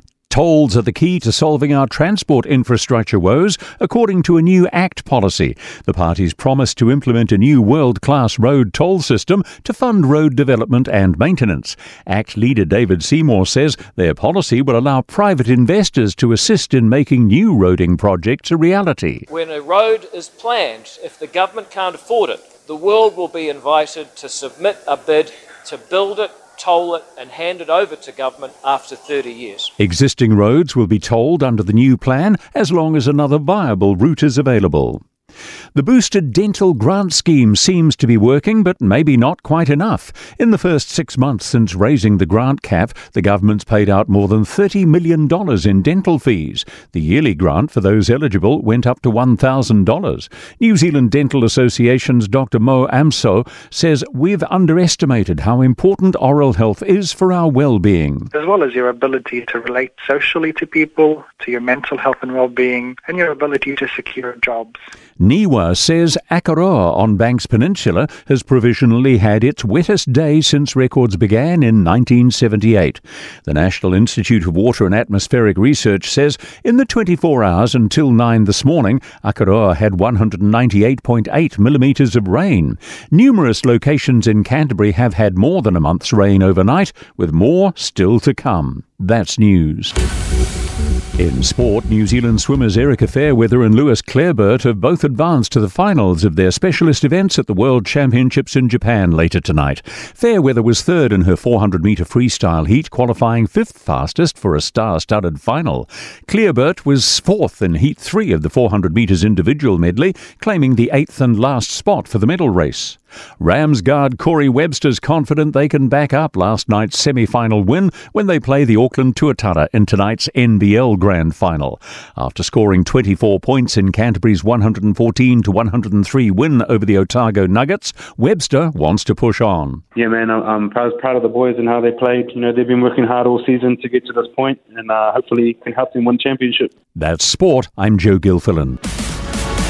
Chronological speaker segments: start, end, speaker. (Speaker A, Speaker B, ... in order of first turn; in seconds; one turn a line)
Speaker A: 0.3-19.2
Speaker B: 19.3-29.7
Speaker A: 29.8-35.0
Speaker A: 35.7-58.3
Speaker C: 58.3-64.8
Speaker A: 65.2-89.9
Speaker A: 91.2-129.8
Speaker D: 129.9-136.7
Speaker A: 136.9-138.8